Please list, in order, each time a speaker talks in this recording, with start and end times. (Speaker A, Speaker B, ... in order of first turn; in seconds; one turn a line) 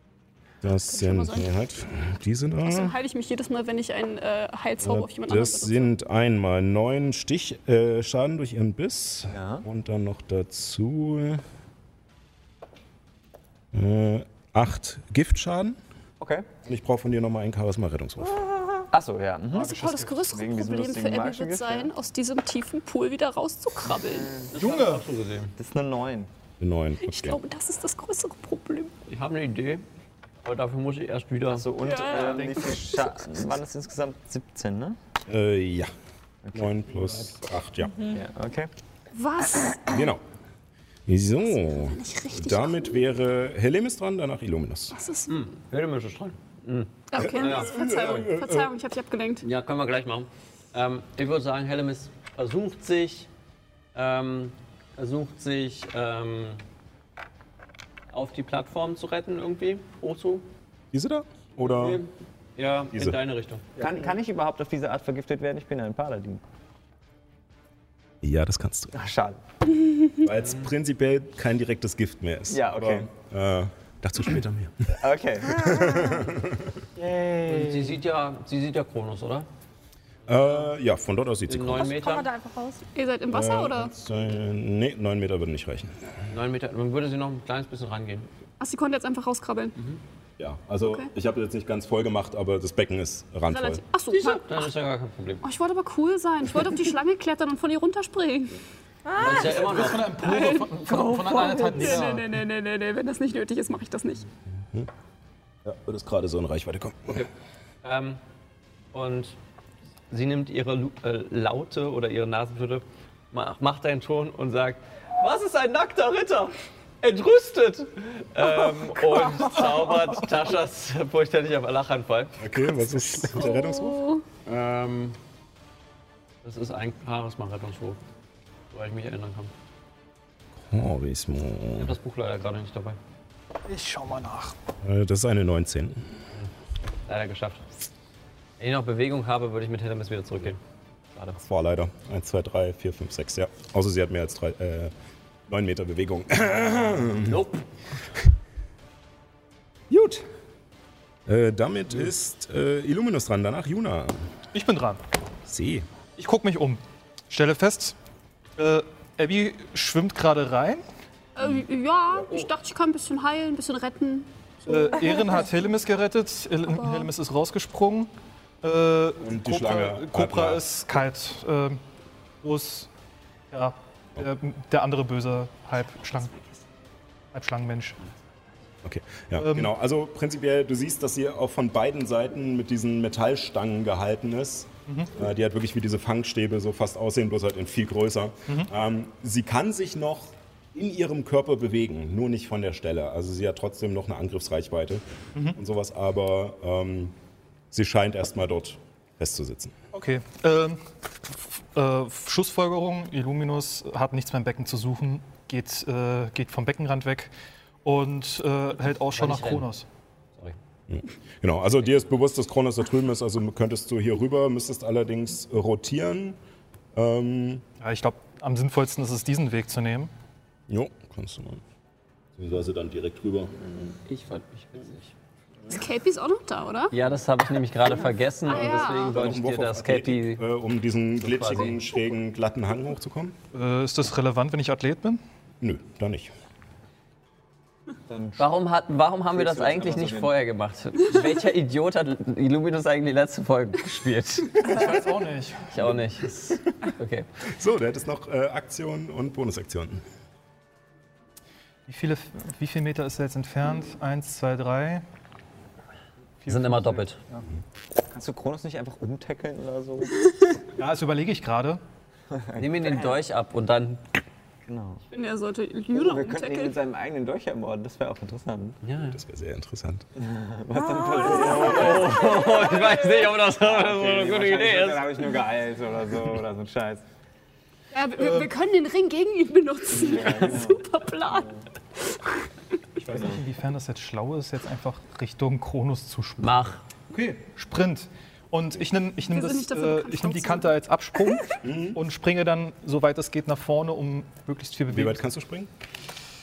Speaker A: 0.6-3.0
Speaker B: 0.9-1.5
Speaker B: 2.6-5.9
Speaker A: 4.8-11.4
Speaker C: 9.3-9.7
Speaker A: 13.7-15.8
Speaker C: 16.2-16.5
Speaker A: 16.6-18.4
Speaker C: 18.9-21.9
Speaker D: 19.5-20.3
Speaker B: 19.6-24.3
Speaker C: 24.0-24.5
Speaker E: 24.5-25.5
Speaker D: 24.6-25.1
Speaker C: 25.6-26.3
Speaker A: 26.6-27.4
Speaker B: 27.0-28.9
Speaker E: 29.1-29.8
Speaker E: 30.4-32.5
Speaker C: 31.5-35.0
Speaker B: 31.8-32.9
Speaker A: 35.3-35.9
Speaker C: 36.4-37.0
Speaker A: 36.5-38.1
Speaker C: 38.1-38.7
Speaker B: 39.1-40.1
Speaker A: 39.9-40.2
Speaker A: 41.1-45.0
Speaker B: 41.5-43.0
Speaker B: 44.9-45.3
Speaker E: 45.3-48.3
Speaker B: 47.1-49.5
Speaker A: 47.2-48.7
Speaker E: 49.4-53.3
Speaker E: 53.9-56.6
Speaker E: 58.1-60.5
Speaker A: 60.9-62.0
Speaker E: 61.6-63.7
Speaker A: 62.9-63.2
Speaker C: 63.8-66.4
Speaker A: 68.2-69.0
Speaker C: 68.9-69.4
Speaker A: 70.2-76.8
Speaker C: 72.5-73.1
Speaker C: 75.0-75.8
Speaker F: 75.6-76.3
Speaker C: 77.0-78.0
Speaker E: 77.5-79.5
Speaker A: 80.3-81.9
Speaker E: 81.5-82.3
Speaker F: 81.8-82.8
Speaker B: 83.0-83.9
Speaker A: 83.3-86.1
Speaker E: 86.3-88.3
Speaker B: 88.6-89.8
Speaker A: 90.4-93.8
Speaker B: 93.5-94.6
Speaker E: 94.1-95.4
Speaker B: 95.4-98.6
Speaker F: 99.1-99.8
Speaker E: 99.2-100.3
Speaker D: 99.4-102.3
Speaker B: 100.2-104.3
Speaker A: 105.7-107.3
Speaker E: 107.8-108.2
Speaker E: 108.9-109.4
Speaker E: 110.1-122.4
Speaker A: 122.4-124.0
Speaker B: 123.3-124.2
Speaker E: 124.5-125.2
Speaker E: 126.4-128.0
Speaker E: 128.7-129.5
Speaker A: 130.6-132.0
Speaker E: 131.8-133.0
Speaker D: 133.7-134.6
Speaker A: 134.8-136.0
Speaker E: 137.1-137.7
Speaker E: 138.6-140.6
Speaker E: 141.1-141.4
Speaker A: 141.4-144.9
Speaker A: 145.5-147.5
Speaker E: 147.2-147.7
Speaker A: 149.9-150.2
Speaker A: 151.3-154.3
Speaker D: 154.5-155.0
Speaker A: 155.4-155.9
Speaker D: 156.2-158.0
Speaker D: 158.6-160.8
Speaker B: 161.4-164.3
Speaker D: 164.7-168.1
Speaker B: 166.7-167.1
Speaker D: 168.6-171.8
Speaker A: 169.2-170.6
Speaker D: 172.4-172.9
Speaker D: 173.5-176.4
Speaker D: 177.3-178.1
Speaker A: 178.8-197.2
Speaker D: 179.4-179.7
Speaker D: 184.9-185.1
Speaker A: 197.7-199.8
Speaker D: 199.9-207.3
Speaker D: 207.8-209.9
Speaker E: 209.1-209.7
Speaker A: 210.9-216.4
Speaker A: 216.9-217.7
Speaker D: 217.8-220.1
Speaker A: 220.7-221.6
Speaker A: 222.4-223.7
Speaker E: 223.9-225.1
Speaker B: 225.7-226.9
Speaker E: 226.9-230.4
Speaker B: 228.5-229.1
Speaker A: 228.6-233.4
Speaker E: 231.2-231.8
Speaker D: 233.5-235.2
Speaker A: 235.6-236.3
Speaker C: 238.1-238.5
Speaker E: 238.4-244.9
Speaker C: 239.3-240.3
Speaker D: 244.6-245.9
Speaker E: 245.7-247.3
Speaker A: 247.5-250.0
Speaker D: 251.9-255.0
Speaker D: 256.4-257.5
Speaker E: 256.5-257.2
Speaker C: 258.1-260.2
Speaker D: 260.8-261.8
Speaker C: 262.3-263.1
Speaker E: 262.6-264.0
Speaker C: 264.7-265.0
Speaker B: 265.1-266.8
Speaker C: 265.9-268.8
Speaker E: 268.8-269.2
Speaker A: 269.0-270.1
Speaker C: 270.2-277.0
Speaker F: 270.8-272.6
Speaker E: 271.2-275.4
Speaker B: 277.9-282.2
Speaker D: 278.2-278.5
Speaker C: 279.9-281.6
Speaker D: 283.0-295.2
Speaker E: 286.4-286.8
Speaker B: 289.3-290.7
Speaker A: 291.6-292.0
Speaker A: 294.9-295.7